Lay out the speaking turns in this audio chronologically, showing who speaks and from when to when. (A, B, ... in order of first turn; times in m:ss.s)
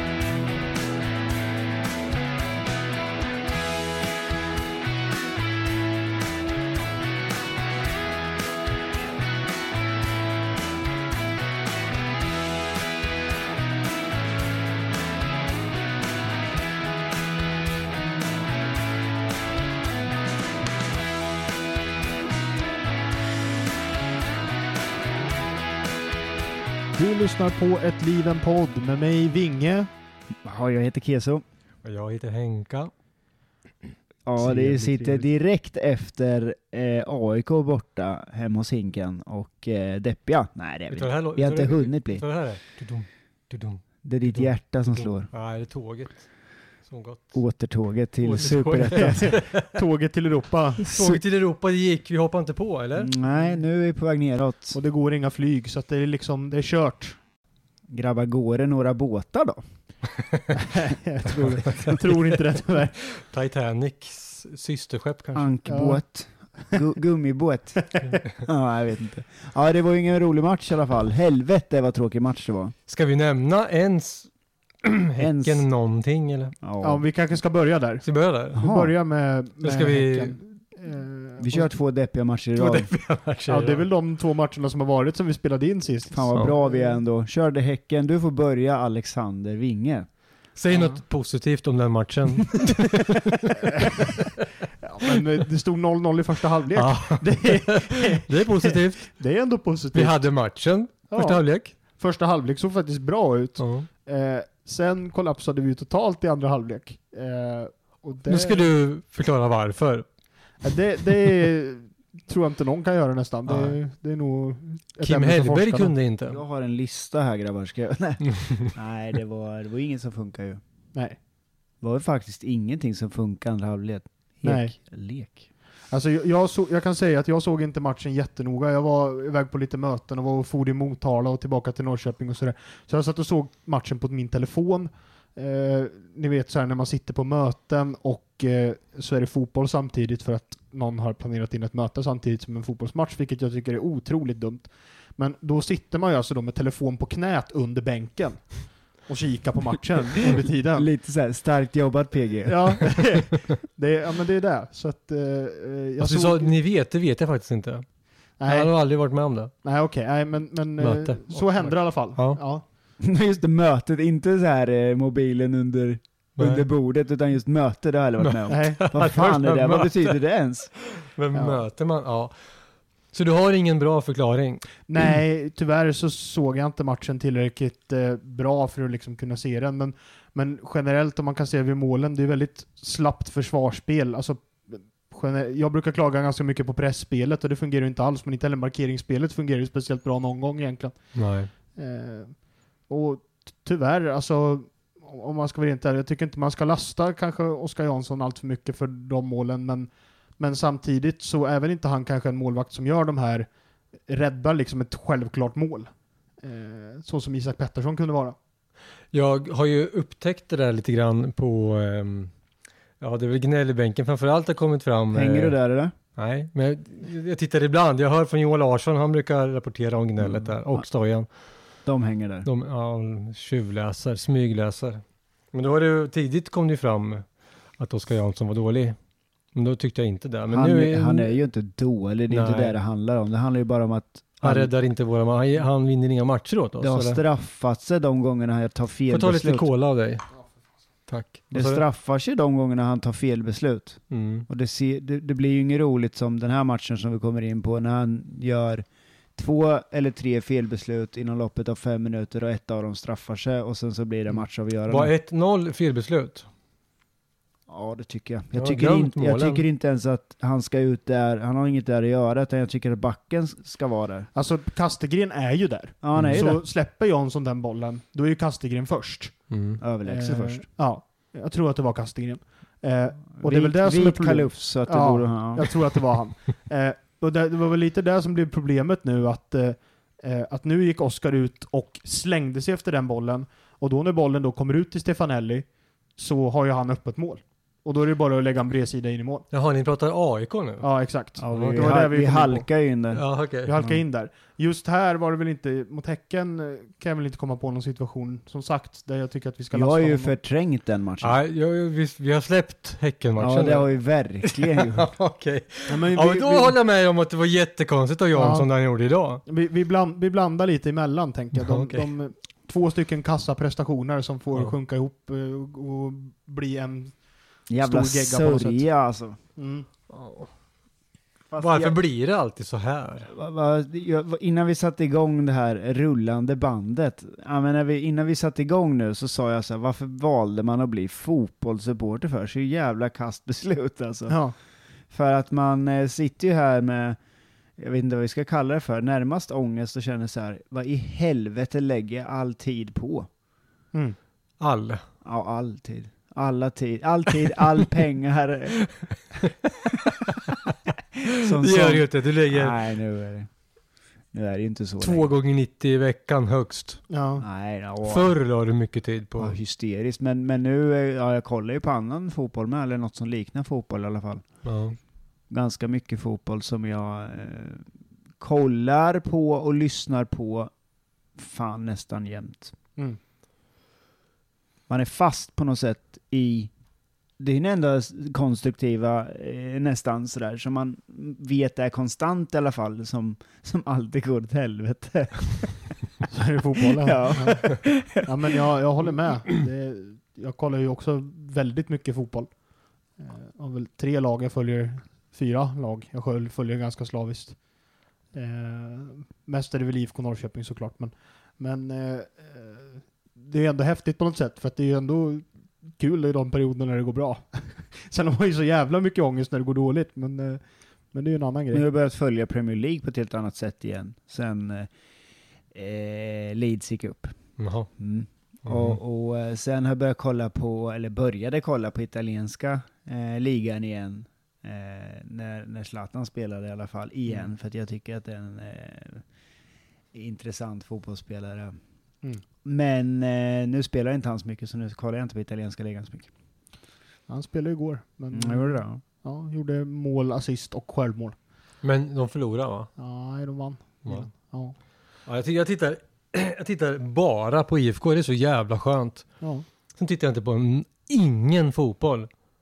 0:26.9-0:29.9 A
0:30.4-0:31.4 B
0:31.8-0:32.9 C
0:34.2-0:42.2 B
0:34.4-0:35.3 A
0:40.9-0:46.3 C
0:44.0-0:45.3 B
0:46.8-0:47.4 C
0:47.3-0:49.3 B
0:48.2-0:49.6 C
0:48.9-0:50.8 A
0:50.8-0:53.1 C
0:50.9-0:51.2 B
0:53.0-0:54.8 B
0:54.7-0:57.2 A
0:57.9-0:59.6 B
1:00.6-1:02.9 A
1:01.2-1:01.9 B
1:01.7-1:02.4 C
1:02.9-1:05.5 C
1:05.3-1:12.7 B
1:05.7-1:06.0 A
1:12.9-1:14.3 C
1:14.8-1:16.5 C
1:15.2-1:15.6 B
1:16.6-1:17.0 B
1:16.8-1:21.7 A
1:18.0-1:18.6 C
1:18.5-1:18.9 B
1:19.6-1:20.4 C
1:21.4-1:22.9 B
1:22.6-1:23.8 C
1:23.5-1:26.9 A
1:26.1-1:30.1 B
1:30.6-1:34.0 C
1:30.7-1:31.0 A
1:33.5-1:34.3 A
1:34.8-1:40.3 A
1:36.7-1:39.2 C
1:39.9-1:41.7 C
1:41.1-1:48.7 A
1:43.6-1:43.9 C
1:48.3-1:50.0 C
1:50.6-1:55.9 A
1:55.0-1:56.4 C
1:56.3-2:00.6 B
1:58.3-1:58.7 C
2:01.8-2:05.4 B
2:04.4-2:04.7 A
2:05.9-2:30.9 A
2:30.8-2:33.0 B
2:32.4-2:36.5 A
2:36.0-2:37.8 C
2:38.4-2:38.7 A
2:38.4-2:39.5 C
2:39.6-2:42.6 A
2:40.8-2:42.4 C
2:43.0-2:50.7 B
2:46.4-2:46.6 C
2:48.2-2:50.2 C
2:48.5-2:48.8 A
2:50.9-2:52.3 C
2:51.3-2:51.6 A
2:53.1-2:54.6 C
2:54.9-3:11.2 A
3:11.1-3:11.5 C
3:11.7-3:23.5 A
3:24.1-3:25.9 A
3:26.4-3:28.4 A
3:29.1-3:32.3 C
3:33.0-3:35.5 C
3:35.1-3:35.9 B
3:36.2-3:41.3 C
3:40.2-3:40.8 B
3:41.8-3:42.5 B
3:42.4-3:45.0 C
3:45.5-3:47.2 C
3:47.8-3:49.0 C
3:49.5-3:51.4 C
3:50.5-3:54.7 B
3:52.3-3:52.7 C
3:54.4-3:57.2 C
3:56.8-3:59.7 B
3:59.1-4:00.2 C
4:01.1-4:01.8 C
4:01.5-4:08.8 B
4:04.1-4:04.4 C
4:09.4-4:15.1 B
4:14.9-4:16.4 C
4:17.7-4:24.3 B
4:18.5-4:19.6 C
4:24.3-4:29.4 A
4:26.0-4:26.6 B
4:26.2-4:26.5 C
4:29.5-4:29.8 C
4:29.8-4:30.6 B
4:30.0-4:49.4 A
4:33.4-4:35.7 B
4:49.5-4:50.9 C
4:50.8-4:52.6 A
4:51.4-4:53.2 B
4:51.5-4:52.0 C
4:53.1-4:53.8 C
4:53.6-5:00.4 A
4:59.7-5:01.4 B
5:01.2-5:03.9 C
5:03.4-5:05.1 B
5:04.4-5:09.4 C
5:05.9-5:06.7 A
5:08.3-5:08.6 A
5:09.5-5:17.1 A
5:11.5-5:12.1 C
5:17.7-5:19.4 B
5:17.7-5:18.8 A
5:19.6-5:19.9 A
5:20.1-5:20.5 C
5:21.5-5:22.0 B
5:21.6-5:23.3 C
5:23.3-5:34.4 B
5:34.3-5:34.5 A
5:35.1-5:37.2 B
5:37.8-5:43.3 B
5:44.6-5:45.0 C
5:45.2-5:48.8 B
5:49.0-5:52.8 C
5:51.4-5:53.5 B
5:54.3-5:55.3 B
5:55.0-5:57.0 C
5:57.1-5:57.4 A
5:57.4-5:58.3 B
5:58.0-5:59.6 C
5:59.4-6:04.4 B
6:04.6-6:05.0 C
6:05.5-6:07.8 B
6:08.4-6:10.7 B
6:11.4-6:12.7 B
6:14.9-6:16.7 B
6:17.4-6:26.0 B
6:26.3-6:32.6 A
6:27.0-6:28.2 B
6:33.2-6:37.6 A
6:38.3-6:51.8 A
6:51.7-6:54.9 B
6:55.7-6:57.4 B
6:57.6-6:57.9 C
6:58.0-7:09.2 B
6:58.6-6:59.0 C
7:10.1-7:11.8 B
7:12.6-7:16.3 B
7:17.3-7:21.4 A
7:18.3-7:19.0 B
7:21.8-7:22.9 C
7:23.0-7:24.7 A
7:25.2-7:29.3 C
7:30.0-7:32.3 C